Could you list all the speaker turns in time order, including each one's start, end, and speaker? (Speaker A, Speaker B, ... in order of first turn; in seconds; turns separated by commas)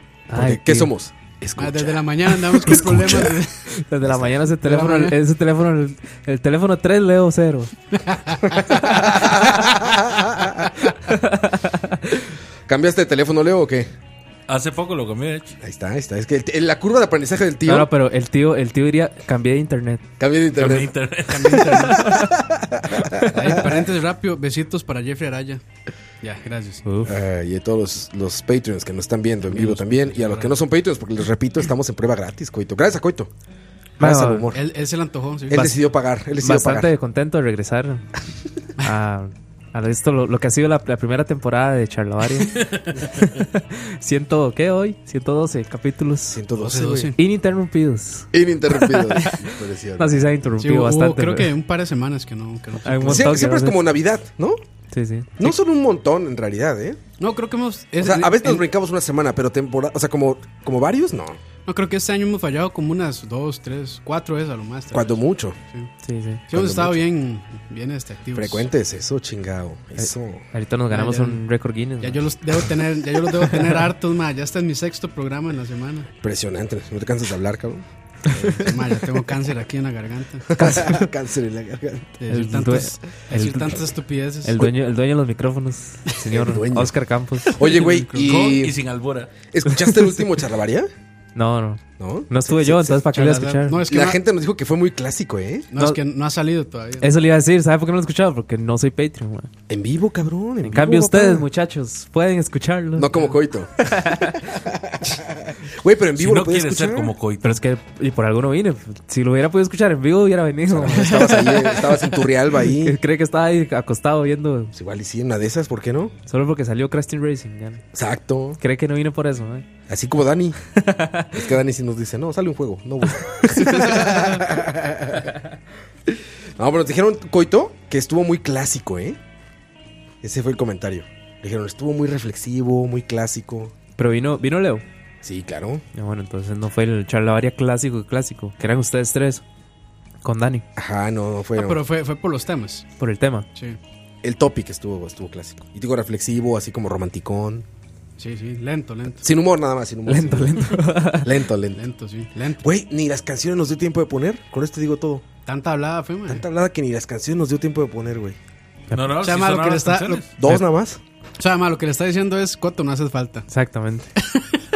Speaker A: 0.3-0.9, Speaker B: 0.3-3.4, Speaker C: 1.6-3.7, Speaker A: 3.7-7.7, Speaker B: 4.0-4.3, Speaker C: 4.6-5.2, Speaker C: 8.0-8.8, Speaker B: 8.5-10.9, Speaker A: 11.1-12.1, Speaker B: 12.7-13.9, Speaker D: 14.5-15.6, Speaker B: 15.6-17.9, Speaker A: 17.6-20.0, Speaker B: 20.2-20.9, Speaker D: 20.6-21.9, Speaker C: 21.3-22.1, Speaker B: 22.0-23.7, Speaker C: 23.2-25.6, Speaker C: 26.2-26.8, Speaker A: 26.8-27.1, Speaker B: 27.0-33.3, Speaker C: 29.6-30.5, Speaker B: 34.0-34.6, Speaker A: 34.0-34.5, Speaker C: 34.5-35.8, Speaker B: 35.5-36.9, Speaker A: 36.4-38.0, Speaker A: 38.8-46.4, Speaker D: 42.5-42.9, Speaker B: 46.3-47.1, Speaker C: 46.6-47.2, Speaker A: 47.1-51.5, Speaker B: 48.3-50.2, Speaker C: 50.6-53.4, Speaker A: 52.8-53.8, Speaker B: 53.1-54.6, Speaker A: 54.9-55.5, Speaker B: 55.4-57.0, Speaker C: 57.2-58.6, Speaker B: 58.0-61.4, Speaker C: 61.6-65.2, Speaker B: 64.9-65.6, Speaker A: 66.0-66.4, Speaker C: 66.5-68.7, Speaker B: 66.5-67.0, Speaker B: 68.3-70.5, Speaker A: 70.0-72.3, Speaker C: 70.9-71.4, Speaker C: 72.0-76.1, Speaker A: 73.4-73.8, Speaker B: 76.2-78.5, Speaker C: 78.4-80.5, Speaker B: 80.5-82.2, Speaker A: 80.5-81.1, Speaker C: 82.2-84.7, Speaker A: 82.3-83.8, Speaker A: 84.4-87.6, Speaker B: 86.2-87.0, Speaker C: 87.5-88.5, Speaker B: 87.5-88.8, Speaker D: 88.1-89.3, Speaker B: 89.5-90.9, Speaker A: 89.7-90.1, Speaker A: 91.3-93.8, Speaker B: 92.0-93.0, Speaker C: 93.1-94.2, Speaker B: 93.9-95.7, Speaker C: 95.7-97.2, Speaker A: 97.0-99.5, Speaker B: 99.7-101.5, Speaker A: 100.6-103.1, Speaker B: 103.0-107.1, Speaker A: 104.0-104.3, Speaker D: 106.2-107.6, Speaker A: 107.4-112.1, Speaker B: 110.7-113.0, Speaker A: 112.7-114.7, Speaker B: 114.7-116.1, Speaker A: 116.3-117.8, Speaker B: 117.9-118.6, Speaker A: 118.6-119.7, Speaker B: 119.9-120.6, Speaker A: 120.7-121.3, Speaker B: 121.3-125.3, Speaker B: 126.1-129.2, Speaker B: 130.2-133.7, Speaker A: 134.0-134.8, Speaker B: 135.2-135.8, Speaker A: 135.9-139.4, Speaker A: 140.2-140.7, Speaker B: 140.8-141.8, Speaker C: 141.5-142.8, Speaker A: 143.0-143.5, Speaker B: 144.2-147.6, Speaker C: 148.2-149.2, Speaker B: 149.2-151.8, Speaker A: 150.1-151.3, Speaker C: 151.7-152.6, Speaker B: 152.6-155.2, Speaker C: 155.4-156.4, Speaker B: 156.3-158.4, Speaker D: 158.9-160.3, Speaker C: 159.1-160.2, Speaker B: 160.4-161.0, Speaker C: 161.4-163.5, Speaker A: 163.5-164.1, Speaker C: 164.2-164.6